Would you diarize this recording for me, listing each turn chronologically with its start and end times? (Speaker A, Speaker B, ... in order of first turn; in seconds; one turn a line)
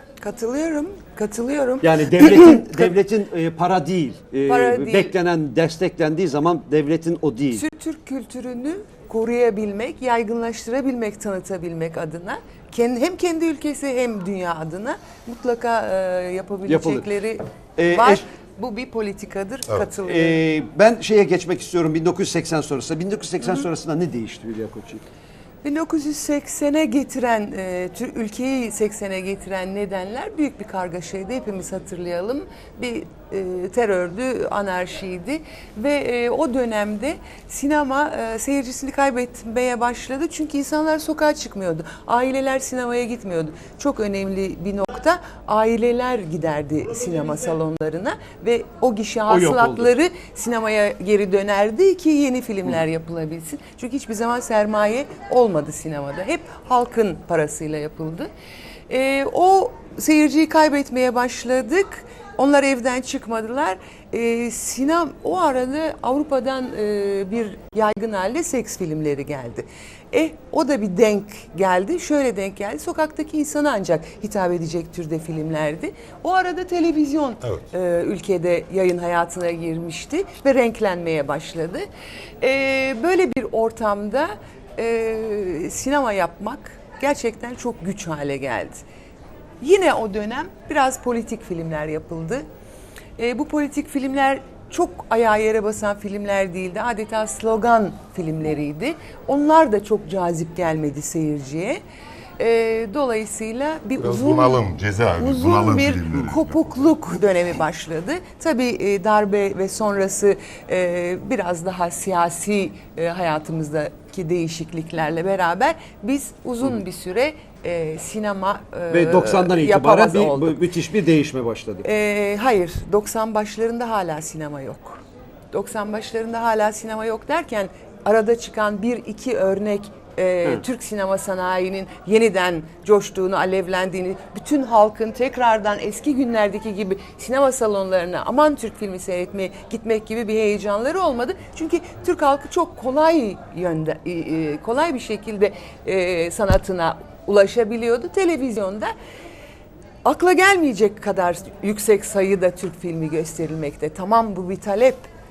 Speaker A: 0.2-2.9
Speaker B: 1.8-7.6
Speaker A: 4.5-5.1
Speaker A: 7.5-20.4
Speaker B: 16.7-17.1
Speaker B: 17.8-18.2
Speaker B: 20.0-25.0
Speaker A: 25.6-58.3
Speaker B: 49.3-49.9
Speaker A: 58.9-81.8
Speaker A: 82.4-88.8
Speaker A: 89.6-92.5
Speaker A: 93.2-101.8
Speaker A: 102.4-104.6
Speaker C: 104.0-106.6
Speaker A: 105.2-120.6
Speaker B: 118.9-121.8
Speaker A: 121.8-148.9
Speaker A: 150.0-155.1